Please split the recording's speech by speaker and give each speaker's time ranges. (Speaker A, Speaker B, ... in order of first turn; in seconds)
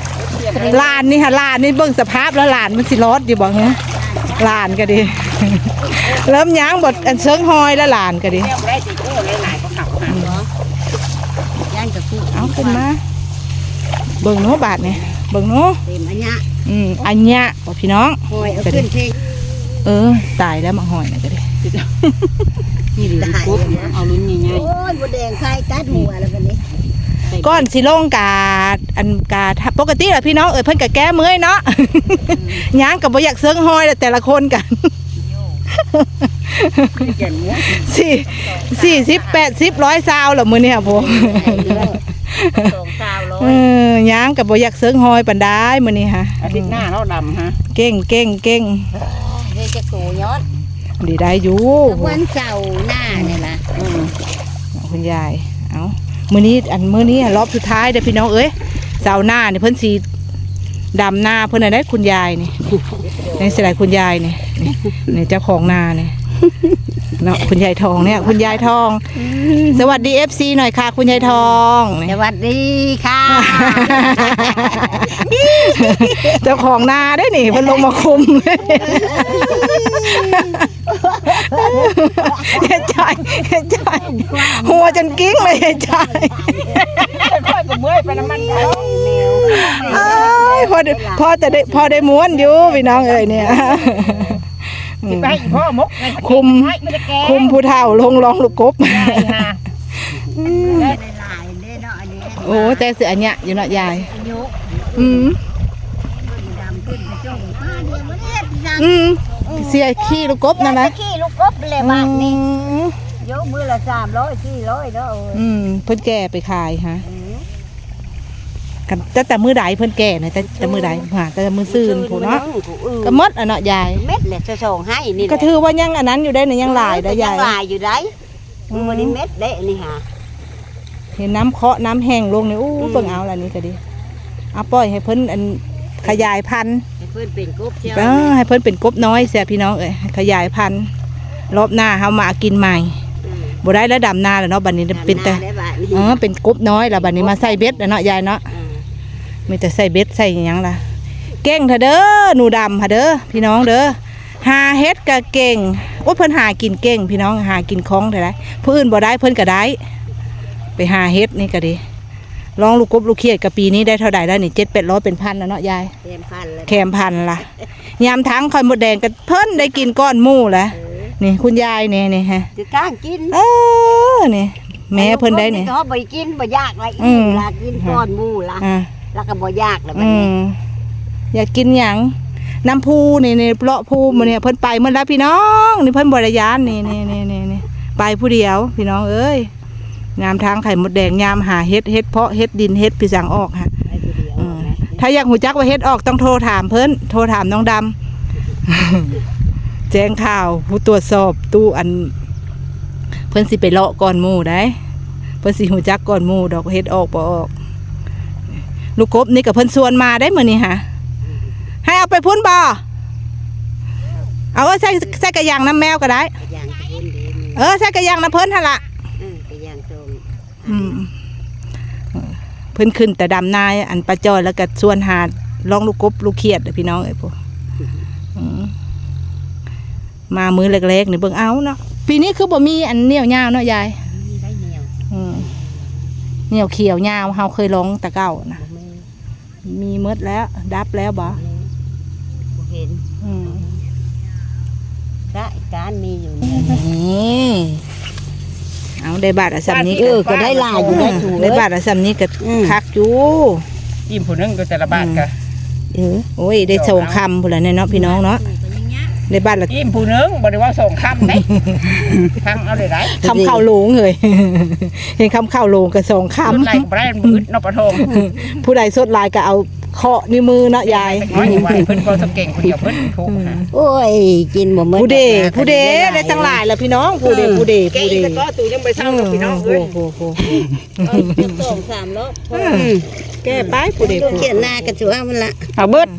Speaker A: 0.2-1.1, 5.9-7.5, 8.2-10.3, 21.6-22.0, 22.9-24.8, 36.9-39.6, 41.2-41.8, 42.6-43.1, 46.4-47.6, 53.7-54.1, 63.1-63.4, 87.0-90.7, 92.3-93.5, 95.1-97.6, 98.8-99.6, 100.7-101.0, 106.6-107.9, 249.6-251.3, 254.1-255.3, 256.6-257.2, 259.7-261.5, 262.0-263.2, 266.4-268.2, 270.8-273.6, 277.8-279.9, 285.7-286.1
Speaker B: 0.5-8.5, 12.3-13.0, 14.2-15.8, 16.6-18.9, 19.8-21.4, 27.3-34.9, 35.7-37.1, 37.6-42.8, 43.3-46.8, 47.6-48.9, 51.0-52.2, 54.7-60.0, 60.9-62.7, 63.4-66.1, 67.2-72.2, 73.3-80.7, 81.3-87.3, 89.5-99.5, 100.0-101.0, 102.4-104.1, 104.9-105.4, 108.8-110.9, 111.8-113.0, 115.3-117.0, 118.9-122.4, 123.0-124.0, 125.2-127.5, 128.7-129.1, 131.2-133.8, 134.5-136.8, 137.9-140.9, 141.5-143.0, 143.6-148.4, 149.5-150.8, 151.4-159.8, 160.8-161.8, 162.6-165.9, 166.7-172.5, 173.3-175.7, 177.0-178.0, 178.6-178.9, 179.9-180.6, 181.3-189.5, 190.2-193.7, 194.3-197.9, 198.7-199.2, 199.9-202.1, 203.3-204.8, 205.4-207.5, 208.9-210.8, 211.8-212.8, 214.5-216.3, 217.6-218.8, 220.7-221.1, 222.1-227.3, 228.3-228.7, 230.3-234.0, 235.1-235.5, 236.5-238.6, 239.6-241.4, 243.2-243.7, 249.0-253.6, 254.9-255.2, 256.4-258.4, 259.3-259.7, 261.6-261.9, 263.1-266.9, 268.0-271.8, 272.8-273.6, 274.9-278.4, 278.9-280.6, 281.1-281.4, 282.5-282.9, 283.4-284.8
Speaker C: 3.6-5.2, 10.1-10.5, 11.7-12.9, 15.8-16.4, 18.3-19.3, 23.0-26.6, 40.8-42.0, 43.1-43.6, 48.9-50.5, 51.8-53.7, 69.3-69.7, 71.1-76.6, 77.5-77.9, 78.5-82.9, 83.8-87.2, 88.0-94.4, 97.9-98.4, 100.4-102.9, 103.5-105.4, 106.2-112.4, 113.2-115.4, 117.0-117.5, 120.6-121.0, 121.7-123.2, 123.9-125.5, 126.6-128.1, 128.7-130.0, 132.8-133.2, 137.0-138.4, 143.2-143.6, 144.9-147.9, 148.5-148.8, 166.0-167.0, 170.7-171.1, 172.5-173.3, 174.9-180.3, 193.9-195.0, 216.4-217.7, 219.2-221.0, 234.0-236.1, 238.6-239.1, 241.2-241.7, 242.5-243.0, 245.3-247.7, 249.9-251.7, 252.4-252.8, 255.9-256.3, 258.0-259.1, 263.2-263.6, 273.7-276.6, 277.2-277.7, 281.0-285.7